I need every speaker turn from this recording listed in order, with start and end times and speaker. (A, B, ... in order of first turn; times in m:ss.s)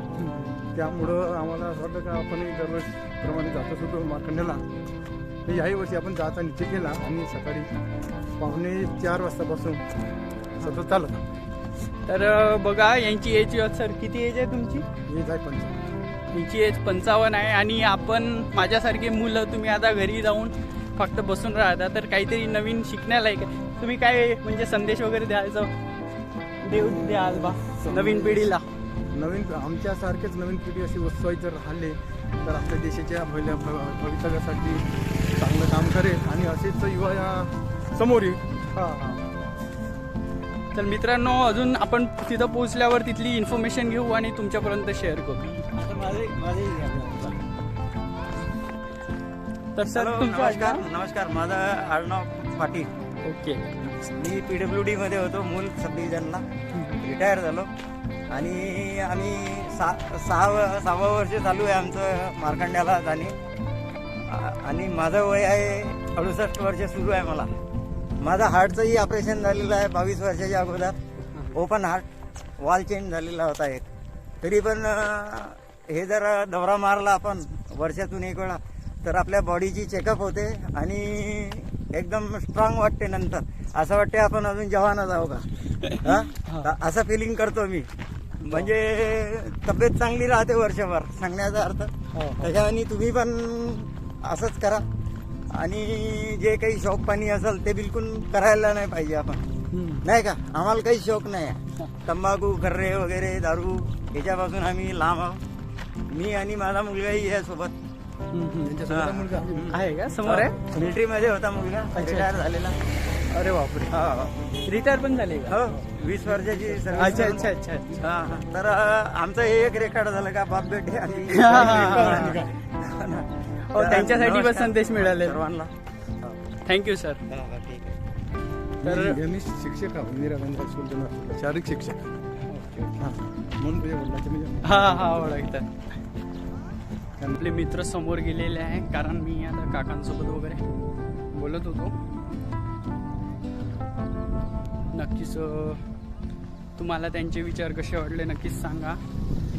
0:00.2-0:00.6 A
0:00.7-0:04.6 B
0:05.4-0:07.7 B
0:08.4-0:09.8 B
0:10.6-0:11.2 B
0:12.0-0:14.8 A
0:15.1-0:15.9 B
0:16.3-0:25.7 A
0:26.6-0:28.6 A
0:26.8-0:28.5 B
0:29.1-0:38.5 B
0:38.7-0:39.2 A
0:40.7-0:45.6 A
0:45.7-0:47.4 C
0:49.7-0:50.8 A
0:49.9-0:52.9 C
0:53.2-0:54.1 A
0:54.2-0:56.4 C
0:56.7-0:57.0 A
0:57.0-0:57.7 C
0:58.3-1:03.4 C
1:04.1-1:07.5 C
1:08.2-1:11.0 C
1:11.5-1:12.1 C
1:12.6-1:13.9 C
1:14.4-1:25.5 C
1:25.8-1:26.7 A
1:26.0-1:27.9 C
1:28.4-1:34.8 C
1:28.4-1:28.7 A
1:32.1-1:32.5 A
1:35.5-1:39.4 C
1:39.7-1:40.0 A
1:40.0-1:45.4 C
1:46.1-1:47.7 C
1:48.3-1:48.8 A
1:48.6-1:49.8 B
1:48.9-1:49.4 C
1:49.6-1:50.6 A
1:50.2-1:52.8 C
1:51.9-1:52.3 A
1:53.3-1:53.9 A
1:53.9-1:54.4 C
1:54.6-1:55.6 A
1:55.5-2:06.4 C
1:56.4-1:57.5 B
1:56.9-1:58.0 A
2:01.3-2:02.4 A
2:01.3-2:02.5 B
2:03.6-2:05.4 A
2:06.6-2:07.2 A
2:07.3-2:08.0 C
2:08.8-2:12.1 B
2:08.8-2:09.2 A
2:12.5-2:13.0 A
2:13.0-2:15.2 B
2:14.6-2:15.7 A
2:17.3-2:20.6 A
2:21.3-2:22.0 A
2:24.9-2:25.8 A
2:26.8-2:29.0 A